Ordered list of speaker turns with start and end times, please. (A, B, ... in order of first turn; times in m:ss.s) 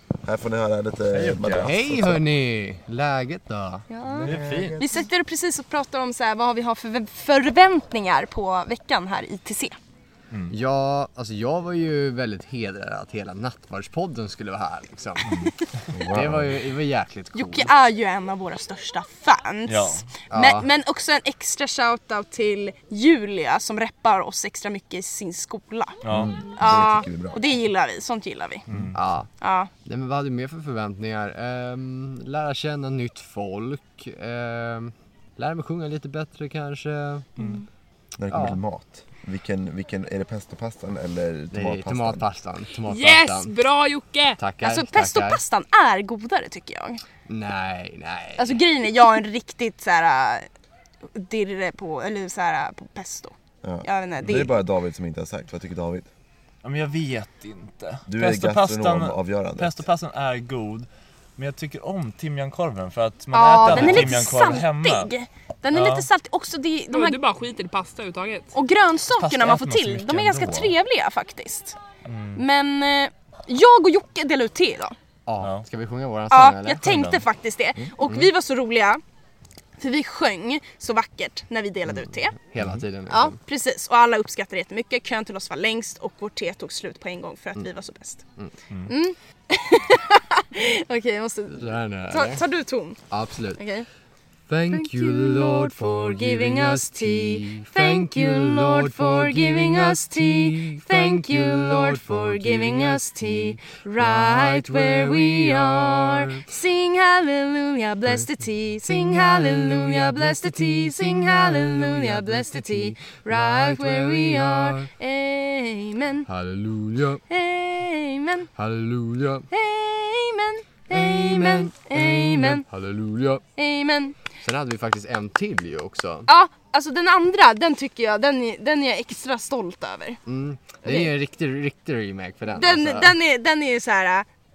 0:00.2-0:02.3 A
0:01.1-0:01.8 B
0:01.6-0:03.8 C
0:03.9-0:09.8 D
0:04.1-0:04.9 A
0:04.2-0:04.8 B
0:10.3-0:10.6 B
0:10.5-0:17.8 C
0:15.9-0:16.6 A
0:17.3-0:28.7 D
0:19.7-0:20.1 B
0:20.3-0:20.7 C
0:26.0-0:26.3 B
0:26.1-0:27.4 A
0:28.7-0:29.0 B
0:28.9-0:29.3 C
0:29.4-0:29.7 D
0:29.8-0:37.3 C
0:37.4-0:37.6 D
0:38.2-0:42.2 A
0:38.3-0:38.6 C
0:41.5-0:43.6 C
0:42.8-0:44.4 E
0:44.4-0:45.4 C
0:44.6-0:47.0 D
0:47.3-0:48.6 C
0:48.4-0:50.5 D
0:51.1-0:54.6 D
0:53.6-0:56.1 A
0:56.6-1:05.1 B
0:58.1-0:59.8 A
1:03.3-1:07.2 D
1:03.6-1:04.1 C
1:05.7-1:06.1 B
1:06.9-1:08.5 E
1:08.5-1:11.8 D
1:09.2-1:10.8 B
1:12.0-1:12.4 B
1:12.4-1:14.9 D
1:15.2-1:16.9 C
1:15.4-1:15.7 B
1:16.3-1:19.0 D
1:16.8-1:17.2 B
1:18.0-1:18.3 C
1:19.8-1:22.4 D
1:21.9-1:23.4 C
1:22.6-1:22.8 B
1:23.1-1:28.2 D
1:28.9-1:33.0 D
1:31.5-1:32.5 C
1:33.1-1:33.6 C
1:33.6-1:33.9 D
1:34.5-1:46.4 C
1:34.7-1:56.3 D
1:48.8-1:54.9 C
1:56.3-1:57.2 C
1:57.3-1:58.5 D
1:58.5-1:59.4 C
1:59.5-2:02.6 D
2:00.9-2:03.4 C
2:03.6-2:04.2 D
2:04.4-2:06.3 C
2:06.3-2:10.2 D
2:10.2-2:13.2 C
2:10.8-2:11.1 D
2:12.5-2:14.3 D